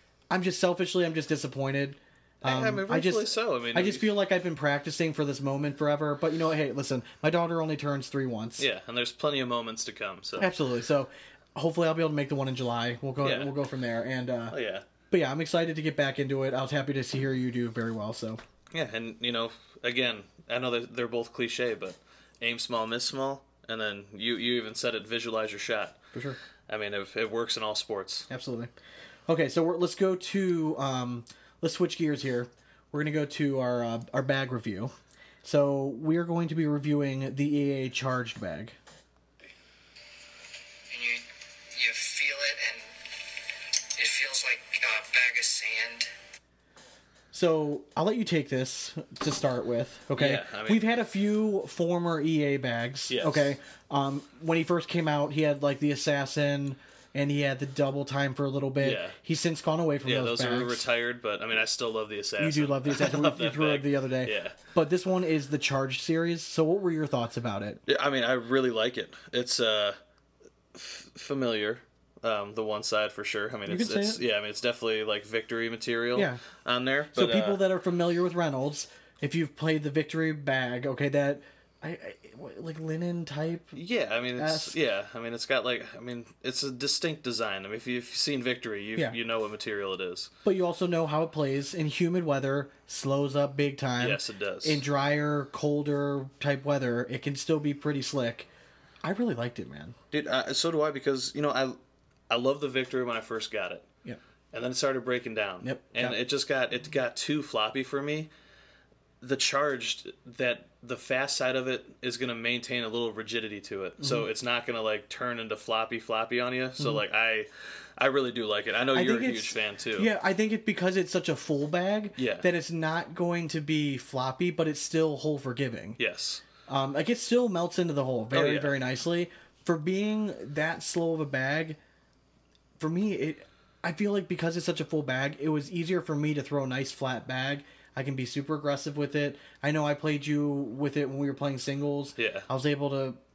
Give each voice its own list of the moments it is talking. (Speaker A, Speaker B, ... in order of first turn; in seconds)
Speaker A: 0.3-8.7, 10.4-14.6, 15.1-18.4, 28.3-28.7, 29.3-34.9, 35.4-38.8, 47.3-60.8, 62.4-67.8, 73.7-74.2, 76.2-76.4, 77.1-83.8, 84.4-84.8, 90.5-98.5, 99.0-100.0, 105.6-106.2, 114.0-114.3, 118.9-126.0, 126.7-131.8, 132.8-143.2
Speaker B: 2.4-4.1, 8.6-10.5, 13.2-13.5, 14.5-14.9, 18.7-26.0, 26.7-28.3, 50.1-50.8, 53.1-53.5, 58.8-59.2, 60.0-64.6, 67.9-70.0, 70.7-77.6, 83.7-90.3, 94.0-94.8, 100.1-101.8, 102.3-103.9, 104.5-108.3, 109.2-120.1, 122.2-122.5, 126.0-126.4, 128.3-128.7, 142.2-142.5
Speaker C: 40.9-41.2, 41.8-42.8, 44.0-46.1